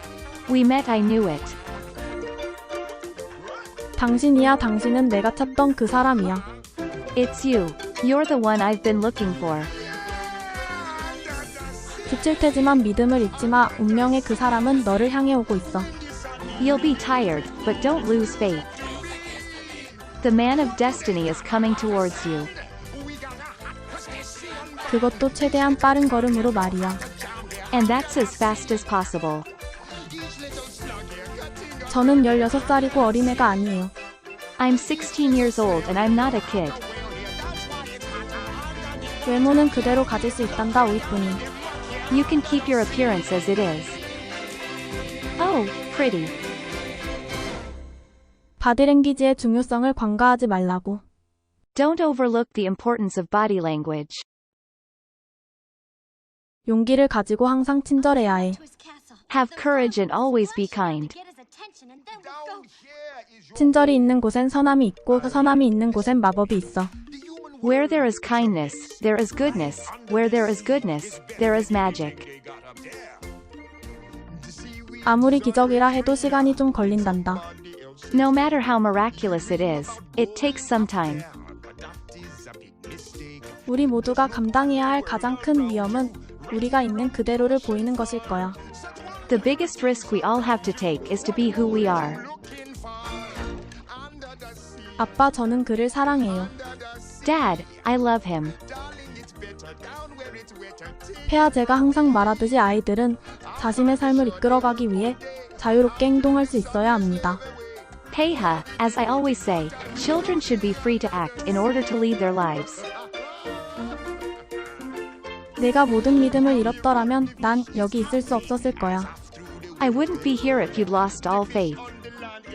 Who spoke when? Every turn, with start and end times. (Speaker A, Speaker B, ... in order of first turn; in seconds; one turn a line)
Speaker A: 0.5-1.6
Speaker B: 4.0-6.5
Speaker A: 7.1-9.7
Speaker B: 12.1-15.9
Speaker A: 16.6-18.8
Speaker A: 20.2-22.5
Speaker B: 24.9-27.0
Speaker A: 27.7-29.5
Speaker B: 31.9-33.9
Speaker A: 34.6-36.8
Speaker B: 39.2-41.4
Speaker A: 42.1-44.0
Speaker A: 45.4-46.3
Speaker B: 48.6-51.0
Speaker A: 51.7-54.2
Speaker B: 56.7-58.6
Speaker A: 59.3-61.2
Speaker B: 63.5-66.9
Speaker A: 67.6-72.3
Speaker B: 75.0-77.4
Speaker A: 78.1-81.2
Speaker B: 83.7-88.6
Speaker A: 89.3-92.2
Speaker B: 95.0-96.5
Speaker A: 97.2-98.5
Speaker B: 101.3-107.4
Speaker A: 108.1-112.8
Speaker B: 115.6-119.1
Speaker A: 119.8-121.8